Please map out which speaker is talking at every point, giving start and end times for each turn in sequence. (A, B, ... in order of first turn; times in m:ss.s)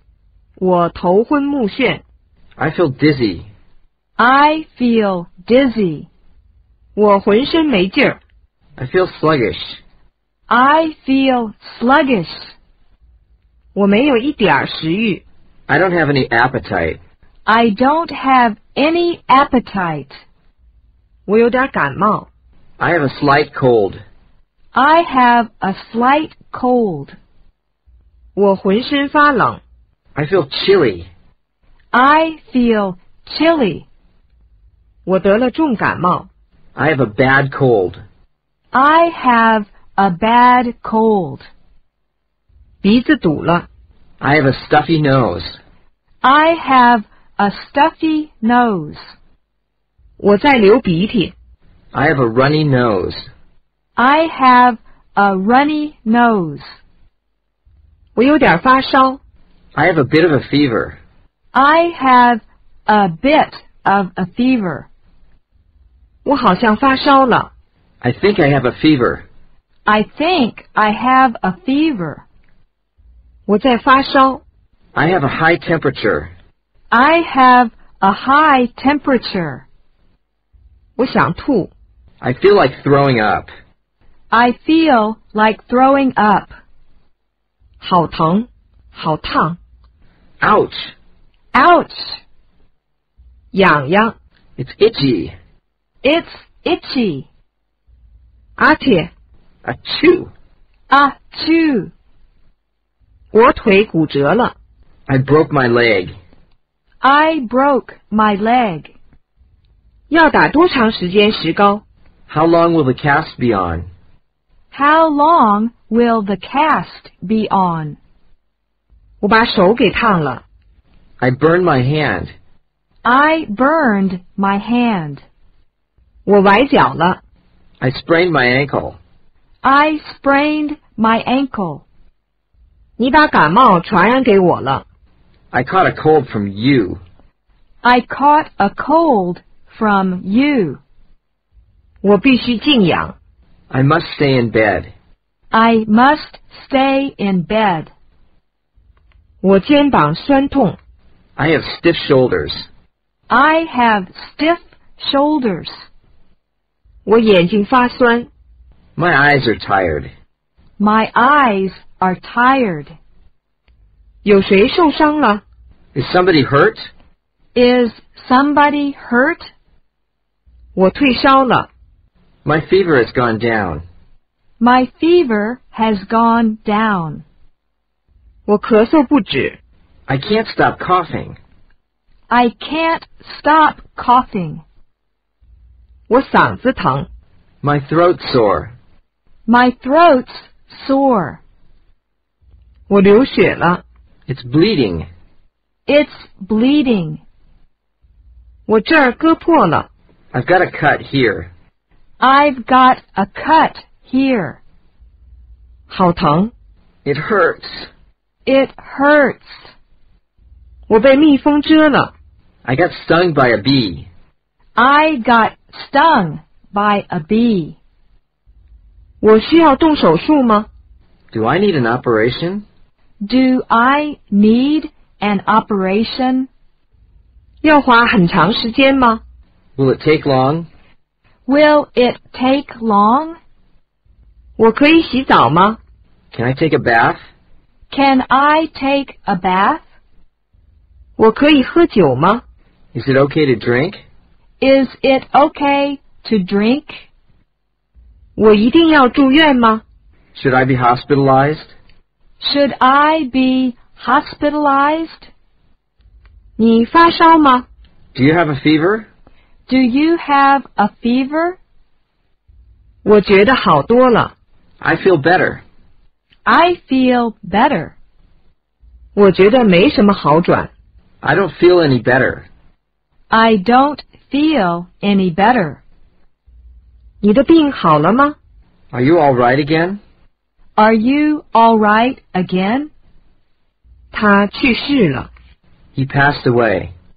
0:00.6-0:02.0 A
0:02.6-0:03.5 B
0:04.2-0:06.1 C
0:07.0-0:08.2 A
0:08.8-0:09.8 B
0:10.5-0:12.5 C
0:13.7-0:15.2 A
0:15.7-0:17.0 B
0:17.5-0:20.2 C
0:21.3-0:22.3 A
0:22.8-0:24.0 B
0:24.7-0:27.2 C
0:28.4-0:29.6 A
0:30.2-0:31.1 B
0:31.9-0:33.8 C
0:35.1-0:36.3 A
0:36.8-0:38.0 B
0:38.7-0:41.5 C
0:42.8-0:43.6 A
0:44.2-0:45.6 B
0:46.2-0:49.0 C
0:50.2-0:51.3 A
0:51.9-0:53.3 B
0:54.0-0:56.7 C
0:58.2-0:59.2 A
0:59.8-1:01.0 B
1:01.5-1:04.9 C
1:06.2-1:07.5 A
1:08.0-1:09.2 B
1:09.9-1:12.2 C
1:13.5-1:14.4 A
1:14.9-1:16.3 B
1:16.9-1:19.6 C
1:21.0-1:21.7 A
1:22.2-1:23.5 B
1:24.3-1:26.6 C
1:27.8-1:29.6 A
1:30.4-1:30.9 B
1:31.5-1:32.2 C
1:33.5-1:34.1 A
1:34.6-1:35.4 B
1:36.0-1:37.3 C
1:38.6-1:39.1 A
1:39.6-1:40.3 B
1:40.9-1:41.9 C
1:43.3-1:44.5 A
1:45.1-1:46.1 B
1:47.0-1:48.9 C
1:50.1-1:51.8 A
1:52.3-1:53.9 B
1:54.7-1:58.0 C
1:59.2-2:00.4 A
2:01.2-2:02.3 B
2:03.0-2:05.2 C
2:06.3-2:07.2 A
2:07.8-2:09.0 B
2:09.6-2:11.8 C
2:13.0-2:14.8 A
2:15.5-2:17.0 B
2:17.8-2:20.8 C
2:22.0-2:23.2 A
2:23.7-2:24.9 B
2:25.5-2:27.9 C
2:29.4-2:30.8 A
2:31.4-2:32.7 B
2:33.3-2:35.8 C
2:37.0-2:38.3 A
2:39.0-2:40.1 B
2:40.8-2:43.0 C
2:44.2-2:45.4 A
2:45.9-2:46.9 B
2:47.6-2:49.5 C
2:50.8-2:51.7 A
2:52.4-2:53.8 B
2:54.6-2:57.2 C
2:58.5-2:59.6 A
3:00.1-3:01.4 B
3:02.3-3:04.6 C
3:06.1-3:07.1 A
3:07.6-3:08.7 B
3:09.5-3:11.4 C
3:12.9-3:13.8 A
3:14.3-3:15.1 B
3:15.9-3:17.2 C
3:18.7-3:19.9 A
3:20.3-3:21.5 B
3:22.2-3:24.6 C
3:25.9-3:26.5 A
3:27.0-3:27.9 B
3:28.5-3:29.6 C
3:30.9-3:32.1 A
3:32.6-3:34.1 B
3:34.8-3:37.8 C
3:39.2-3:40.7 A
3:41.3-3:42.6 B
3:43.2-3:46.5 C
3:47.6-3:49.2 A
3:49.8-3:50.7 B
3:51.5-3:53.4 C
3:54.6-3:55.8 A
3:56.3-3:57.2 B
3:57.9-3:59.8 C
4:01.2-4:02.4 A
4:02.9-4:04.0 B
4:04.6-4:07.1 C
4:08.4-4:09.8 A
4:10.3-4:11.7 B
4:12.4-4:15.3 C
4:16.6-4:17.7 A
4:18.1-4:19.1 B
4:19.7-4:21.6 C
4:23.0-4:24.3 A
4:24.8-4:25.6 B
4:26.5-4:28.0 C
4:29.2-4:30.7 A
4:31.2-4:32.5 B
4:33.3-4:35.8 C
4:37.2-4:38.4 A
4:38.9-4:40.0 B
4:40.8-4:42.9 C
4:44.1-4:45.3 A
4:46.0-4:46.9 B